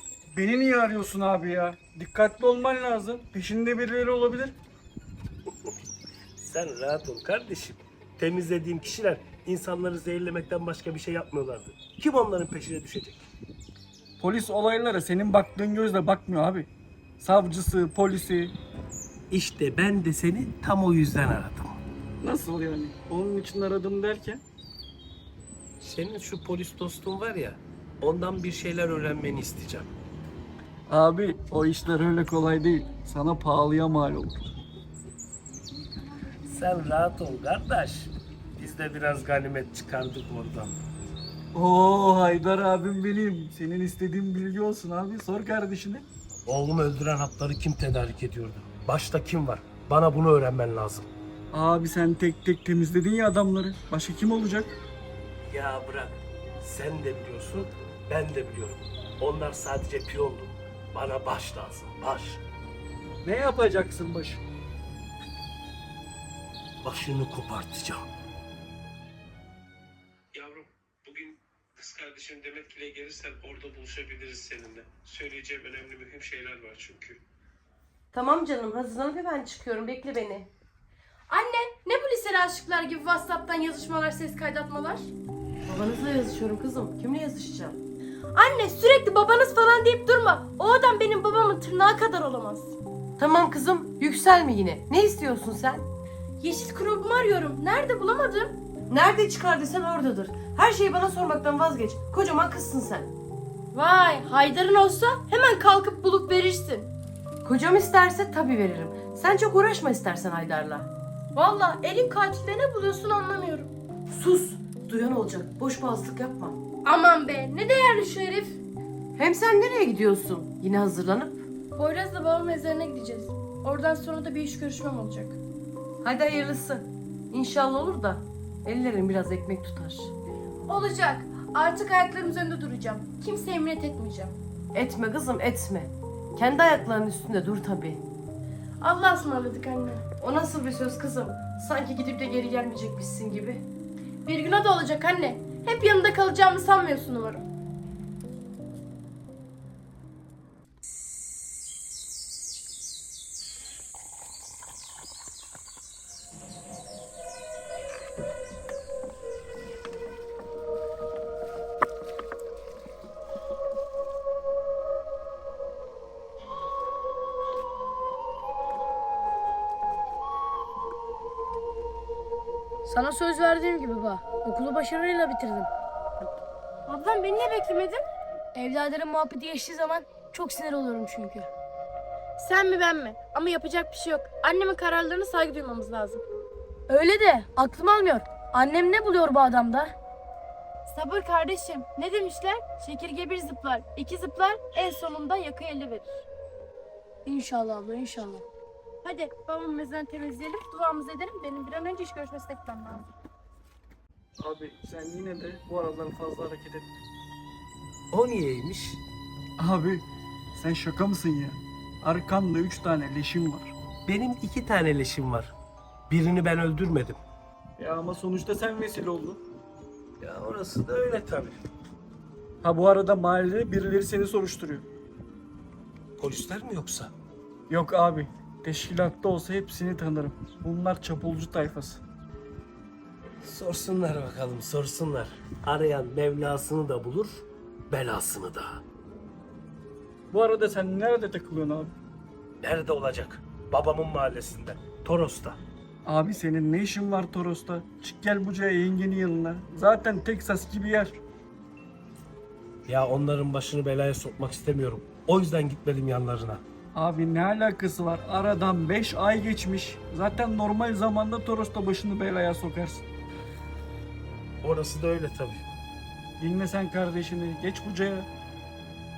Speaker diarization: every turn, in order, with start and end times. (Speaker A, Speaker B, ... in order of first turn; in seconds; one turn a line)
Speaker A: 0.3-4.5
Speaker B: 6.4-13.2
Speaker A: 14.2-18.5
Speaker B: 19.3-21.8
Speaker A: 22.2-24.4
Speaker B: 25.8-29.9
Speaker A: 30.9-34.5
Speaker B: 36.5-40.8
Speaker A: 41.5-46.0
Speaker B: 46.5-51.1
Speaker A: 51.5-54.7
Speaker B: 55.5-62.4
Speaker A: 63.2-64.4
Speaker B: 66.8-68.0
Speaker B: 70.3-77.2
Speaker C: 78.1-80.5
Speaker D: 81.3-85.1
Speaker C: 85.7-87.8
Speaker D: 88.3-92.7
Speaker C: 93.2-95.9
Speaker D: 96.4-98.5
Speaker C: 98.9-103.1
Speaker D: 103.7-106.9
Speaker C: 107.4-110.9
Speaker D: 111.3-113.7
Speaker C: 114.1-116.6
Speaker D: 116.8-118.6
Speaker C: 119.2-121.5
Speaker D: 121.8-125.4
Speaker C: 126.0-130.1
Speaker D: 130.7-134.3
Speaker C: 134.7-138.1
Speaker D: 138.8-140.0
Speaker C: 140.2-143.6
Speaker D: 144.2-147.4
Speaker E: 172.8-175.7
Speaker D: 176.9-178.0
Speaker E: 178.5-181.5
Speaker D: 182.4-186.2
Speaker E: 186.9-189.9
Speaker D: 190.9-196.1
Speaker E: 197.2-198.4
Speaker D: 199.0-203.0
Speaker A: 204.4-206.9
Speaker B: 208.1-209.0
Speaker A: 209.6-210.0
Speaker A: 210.6-213.7
Speaker B: 214.1-215.5
Speaker B: 216.1-217.2
Speaker A: 217.8-219.4
Speaker B: 220.2-221.6
Speaker A: 222.6-224.8
Speaker B: 226.2-227.1
Speaker A: 227.7-232.0
Speaker B: 233.4-238.8
Speaker A: 240.3-241.9
Speaker B: 242.6-245.6
Speaker A: 246.1-251.2
Speaker B: 252.9-256.6
Speaker A: 256.9-263.0
Speaker B: 264.6-265.6
Speaker A: 266.4-268.3